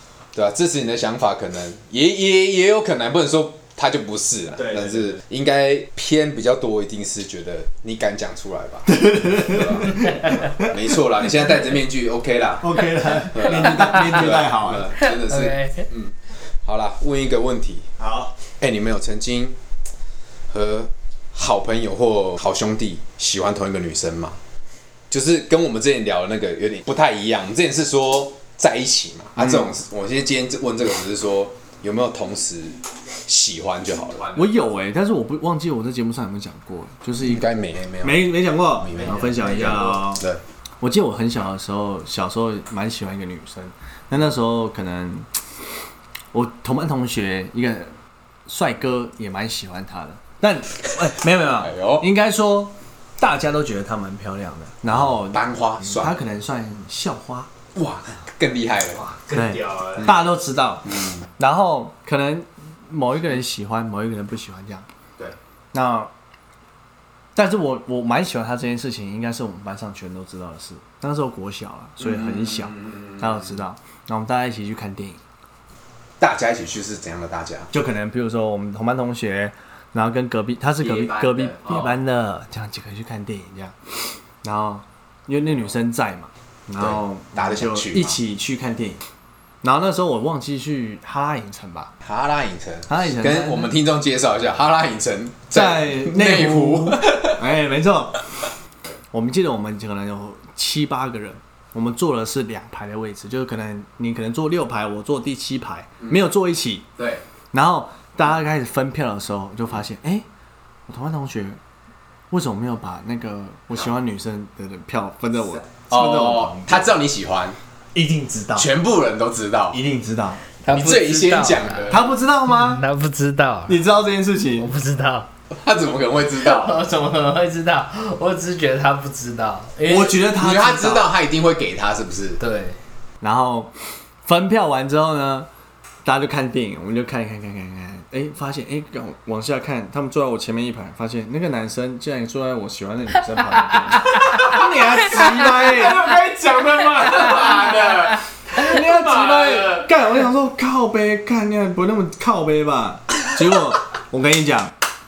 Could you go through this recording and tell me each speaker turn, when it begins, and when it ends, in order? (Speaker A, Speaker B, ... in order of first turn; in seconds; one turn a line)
Speaker A: 0.3-17.9
Speaker B: 4.6-5.1
Speaker B: 8.9-10.7
Speaker C: 10.0-10.5
Speaker B: 12.6-14.9
Speaker C: 13.9-14.3
Speaker C: 15.0-15.9
Speaker B: 18.0-18.3
Speaker A: 18.6-19.6
Speaker A: 20.5-24.4
Speaker A: 25.1-34.5
Speaker B: 29.4-29.7
Speaker B: 34.4-40.2
Speaker A: 37.2-40.4
Speaker C: 39.0-39.4
Speaker B: 40.8-45.3
Speaker B: 46.3-47.9
Speaker B: 48.5-57.5
Speaker A: 51.6-52.1
Speaker A: 54.9-56.2
Speaker A: 57.8-59.0
Speaker C: 59.0-60.1
Speaker B: 59.3-64.9
Speaker A: 60.9-61.2
Speaker B: 65.7-66.1
Speaker B: 67.3-75.2
Speaker A: 72.0-73.3
Speaker A: 76.2-77.7
Speaker B: 77.7-89.0
Speaker A: 80.8-81.9
Speaker A: 86.8-88.2
Speaker B: 89.6-91.9
Speaker A: 92.0-97.4
Speaker B: 92.9-93.7
Speaker B: 95.5-98.2
Speaker B: 99.1-106.9
Speaker A: 107.0-107.2
Speaker B: 107.5-110.3
Speaker B: 110.9-111.6
Speaker B: 112.3-116.9
Speaker A: 115.9-117.6
Speaker B: 118.0-118.7
Speaker A: 118.6-119.8
Speaker B: 119.7-120.4
Speaker C: 120.6-123.8
Speaker A: 120.7-122.0
Speaker B: 121.9-122.8
Speaker B: 123.7-124.7
Speaker C: 124.6-125.3
Speaker A: 125.5-126.8
Speaker C: 126.4-130.2
Speaker B: 129.9-131.1
Speaker A: 130.3-132.4
Speaker C: 132.4-132.8
Speaker B: 133.2-135.5
Speaker B: 136.1-146.1
Speaker A: 144.3-149.9
Speaker B: 148.5-154.7